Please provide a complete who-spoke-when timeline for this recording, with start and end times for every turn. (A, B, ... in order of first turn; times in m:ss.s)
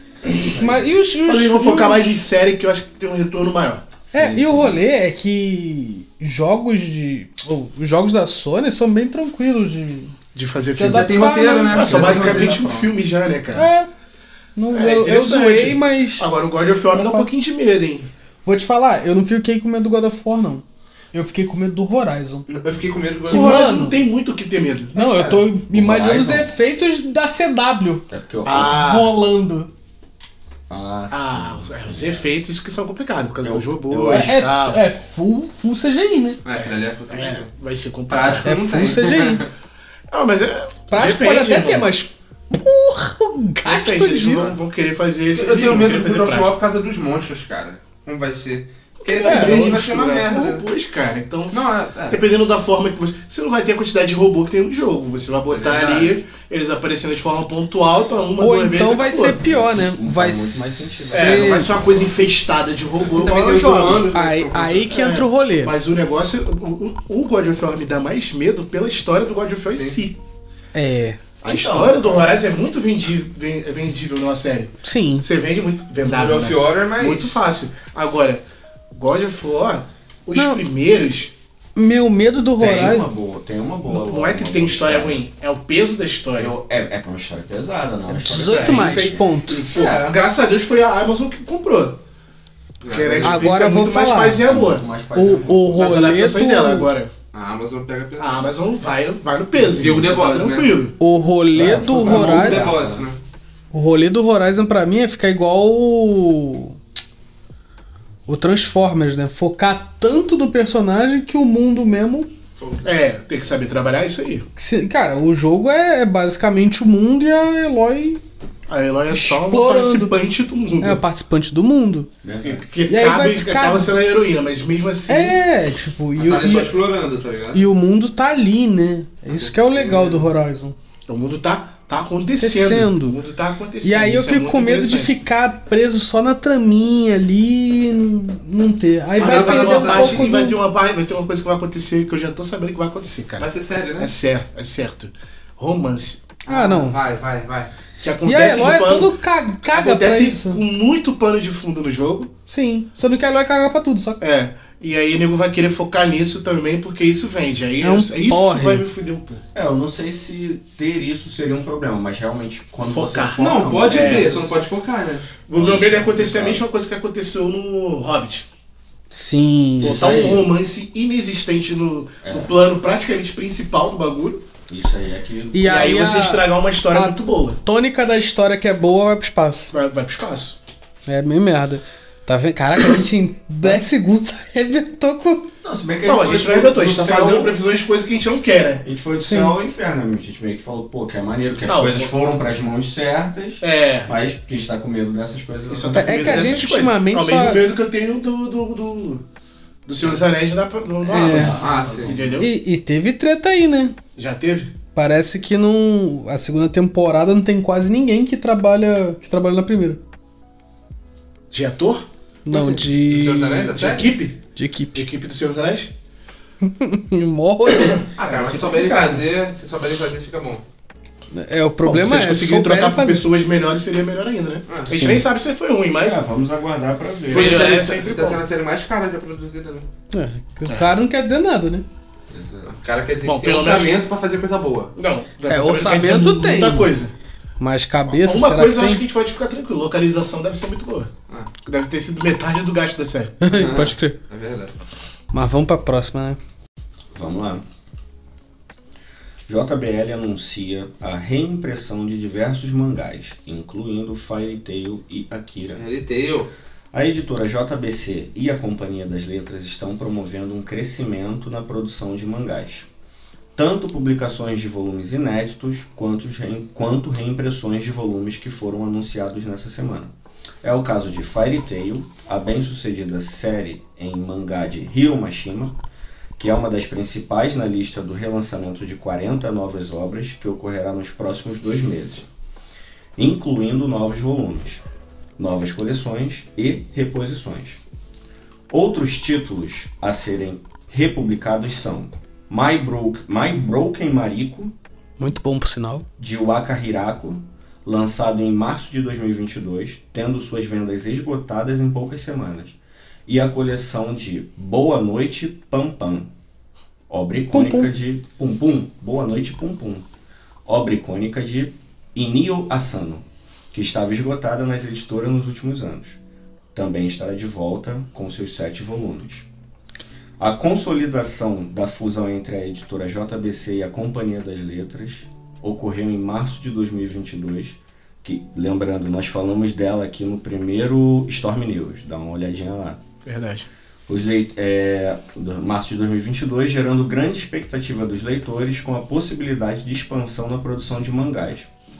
0:00.4-0:00.9 A
0:00.5-0:02.2 B
0:01.2-0:03.9 C
0:04.0-0:04.8 A
0:04.1-0:10.2 B
0:10.3-0:13.7 C
0:10.8-0:12.6 B
0:10.8-0:13.0 D
0:13.6-0:13.9 B
0:14.6-0:16.3 B
0:14.7-0:18.1 C
0:16.9-0:17.3 B
0:18.4-0:22.5 B
0:22.5-0:23.7 D
0:23.3-0:25.0 C
0:23.3-0:24.0 B
0:25.0-0:29.7 B
0:25.0-0:25.5 D
0:25.7-0:26.5 A
0:28.1-0:28.9 A
0:28.5-0:29.2 C
0:30.7-0:32.3 A
0:31.1-0:34.8 C
0:33.4-0:34.4 A
0:34.1-0:36.4 B
0:36.4-0:37.5 D
0:36.6-0:38.5 C
0:38.1-0:39.5 D
0:38.4-0:39.5 B
0:40.1-0:41.9 C
0:40.9-0:44.6 B
0:43.6-0:46.5 C
0:45.3-0:50.7 D
0:49.0-0:51.6 C
0:49.2-0:49.7 B
0:51.5-0:52.3 D
0:52.1-0:59.4 C
0:55.5-0:56.2 D
0:58.4-1:01.7 B
0:59.4-1:01.8 A
1:01.1-1:04.2 C
1:03.1-1:04.9 D
1:04.1-1:05.8 B
1:04.9-1:10.2 C
1:09.7-1:10.0 D
1:10.7-1:11.2 B
1:11.4-1:12.4 A
1:11.4-1:18.4 C
1:14.8-1:15.3 B
1:16.0-1:17.4 D
1:18.9-1:21.3 C
1:20.4-1:20.6 B
1:21.8-1:23.1 B
1:22.6-1:25.2 A
1:23.9-1:26.5 C
1:26.4-1:30.2 A
1:28.1-1:29.6 B
1:28.3-1:32.0 C
1:32.8-1:33.4 D
1:32.8-1:34.8 C
1:33.2-1:34.4 B
1:34.4-1:35.9 A
1:35.2-1:36.9 B
1:35.7-1:37.1 C
1:37.3-1:38.5 D
1:38.2-1:41.0 C
1:39.6-1:40.8 D
1:41.0-1:42.7 B
1:41.6-1:43.1 A
1:41.6-1:43.2 D
1:42.0-1:42.8 C
1:43.7-1:46.8 B
1:48.3-1:52.3 B
1:52.6-1:52.9 D
1:52.8-1:54.5 C
1:54.6-1:58.2 B
1:58.7-2:01.0 C
1:59.1-2:00.2 B
2:00.8-2:02.1 B
2:02.2-2:02.6 A
2:02.4-2:05.4 C
2:02.9-2:03.9 B
2:05.1-2:06.7 B
2:06.2-2:07.6 D
2:07.5-2:10.8 B
2:09.3-2:10.3 D
2:11.1-2:15.2 C
2:12.4-2:13.2 B
2:13.8-2:20.6 B
2:19.2-2:26.2 C
2:19.2-2:20.3 D
2:23.4-2:24.2 D
2:26.4-2:27.7 D
2:26.5-2:27.0 B
2:28.0-2:29.1 C
2:28.2-2:30.6 B
2:29.7-2:32.3 C
2:32.5-2:34.2 B
2:34.2-2:39.4 C
2:37.8-2:38.8 B
2:39.5-2:44.5 A
2:42.8-2:44.5 C
2:43.4-2:45.3 D
2:45.5-2:48.5 C
2:45.5-2:46.7 A
2:49.1-2:50.3 B
2:49.8-2:50.5 A
2:49.8-2:54.4 C
2:52.2-2:52.5 A
2:54.7-2:56.1 A
2:55.5-2:59.7 B
2:55.6-2:57.6 C
2:59.7-3:00.6 C
3:01.1-3:05.5 B
3:05.6-3:07.6 A
3:06.0-3:08.8 C
3:08.8-3:16.6 A
3:09.2-3:09.6 B
3:11.7-3:12.1 C
3:13.6-3:14.1 C
3:15.7-3:19.2 C
3:15.9-3:17.7 B
3:19.9-3:22.5 C
3:21.1-3:21.6 B
3:21.3-3:22.1 A
3:21.3-3:22.3 D
3:22.4-3:24.0 B
3:24.2-3:24.8 C
3:25.0-3:30.0 B
3:31.5-3:32.1 C
3:32.5-3:33.8 B
3:32.5-3:34.2 D
3:33.6-3:34.4 C
3:34.6-3:35.0 B
3:35.0-3:35.9 C
3:36.6-3:38.0 B
3:37.8-3:39.2 C
3:38.2-3:40.6 D
3:41.3-3:43.2 B
3:41.8-3:46.2 C
3:44.7-3:45.0 D
3:44.9-3:45.3 B
3:46.0-3:47.8 A
3:47.2-3:48.4 C
3:47.3-3:49.9 D
3:50.1-3:51.8 B
3:50.7-3:50.9 C
3:52.3-3:52.8 A
3:52.6-3:55.0 D
3:53.2-3:54.0 C
3:55.0-3:57.1 C
3:55.5-3:56.9 B
3:57.6-3:59.0 B
3:58.1-4:01.1 C
4:01.6-4:03.4 C
4:03.4-4:04.2 B
4:03.5-4:04.7 D
4:05.3-4:06.4 B
4:07.1-4:07.6 A
4:09.5-4:15.8 A
4:15.7-4:16.5 D
4:16.9-4:22.9 A
4:23.6-4:35.8 A
4:36.4-4:42.3 A
4:43.2-4:44.8 A
4:45.4-4:47.8 A
4:48.7-4:54.8 A
4:55.2-4:56.1 B
4:56.2-5:06.3 A
5:07.1-5:10.1 A
5:07.5-5:07.9 B
5:10.7-5:16.2 A
5:16.7-5:19.5 A
5:20.4-5:33.0 A
5:33.2-5:33.7 C
5:34.1-5:41.7 A